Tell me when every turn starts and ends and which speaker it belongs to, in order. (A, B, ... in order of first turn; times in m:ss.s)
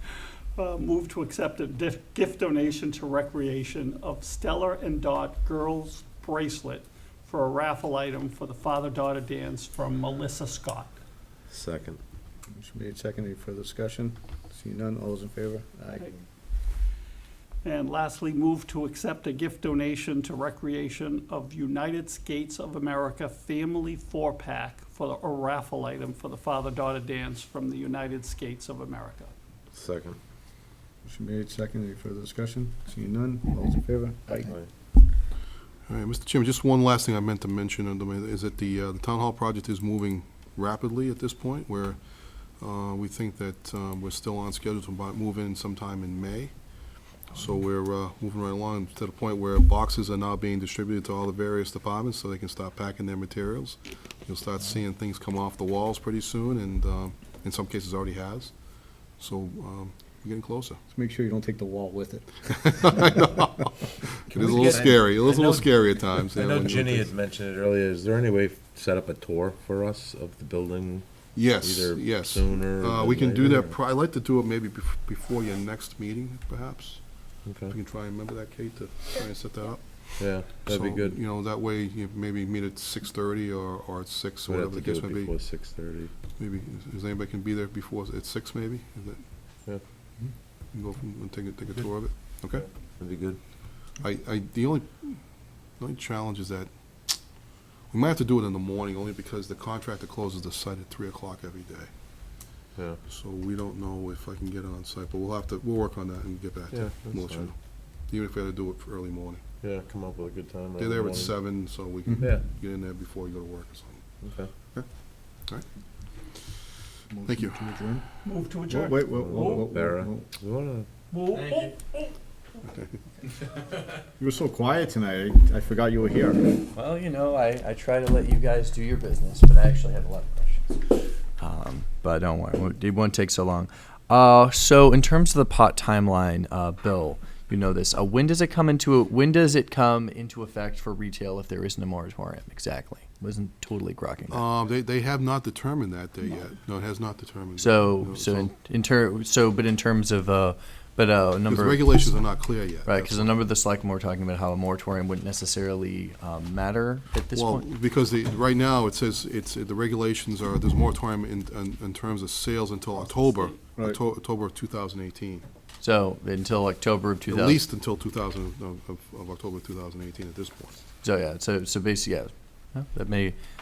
0:00.6-0:10.9 A
0:11.5-0:12.0 B
0:12.5-0:16.2 C
0:17.6-0:29.3 A
0:29.7-0:30.2 B
0:31.0-0:34.5 C
0:34.4-0:34.7 B
0:35.9-0:42.0 D
0:42.6-0:46.5 D
0:47.3-0:58.5 D
0:59.2-1:00.8 D
1:00.9-1:03.5 C
1:02.8-1:03.7 D
1:04.3-1:05.0 C
1:04.3-1:07.1 D
1:04.4-1:13.8 B
1:11.4-1:17.0 D
1:17.5-1:17.8 B
1:17.7-1:25.4 D
1:20.2-1:21.2 B
1:24.5-1:26.1 B
1:26.4-1:29.2 D
1:30.7-1:32.7 D
1:32.5-1:33.4 B
1:34.0-1:35.2 D
1:35.8-1:37.2 D
1:37.9-1:41.9 D
1:42.8-1:43.0 B
1:43.1-1:47.6 D
1:46.7-1:47.5 B
1:48.1-1:49.4 D
1:49.6-1:51.4 B
1:50.8-1:54.2 D
1:52.2-1:52.4 B
1:54.2-1:54.5 B
1:57.1-1:58.0 C
1:57.3-1:57.6 D
1:58.2-1:59.6 A
1:58.7-2:00.2 C
1:59.1-2:00.9 B
2:01.1-2:01.8 A
2:04.2-2:06.6 C
2:06.7-2:10.8 E
2:11.4-2:24.4 E
2:24.3-2:28.5 D
2:27.6-2:32.2 E
2:31.5-2:33.4 D
2:32.9-2:37.6 E
2:37.4-2:45.4 D
2:43.6-2:44.0 C
2:45.8-2:47.6 E
2:47.3-2:50.8 D
2:51.0-2:53.4 E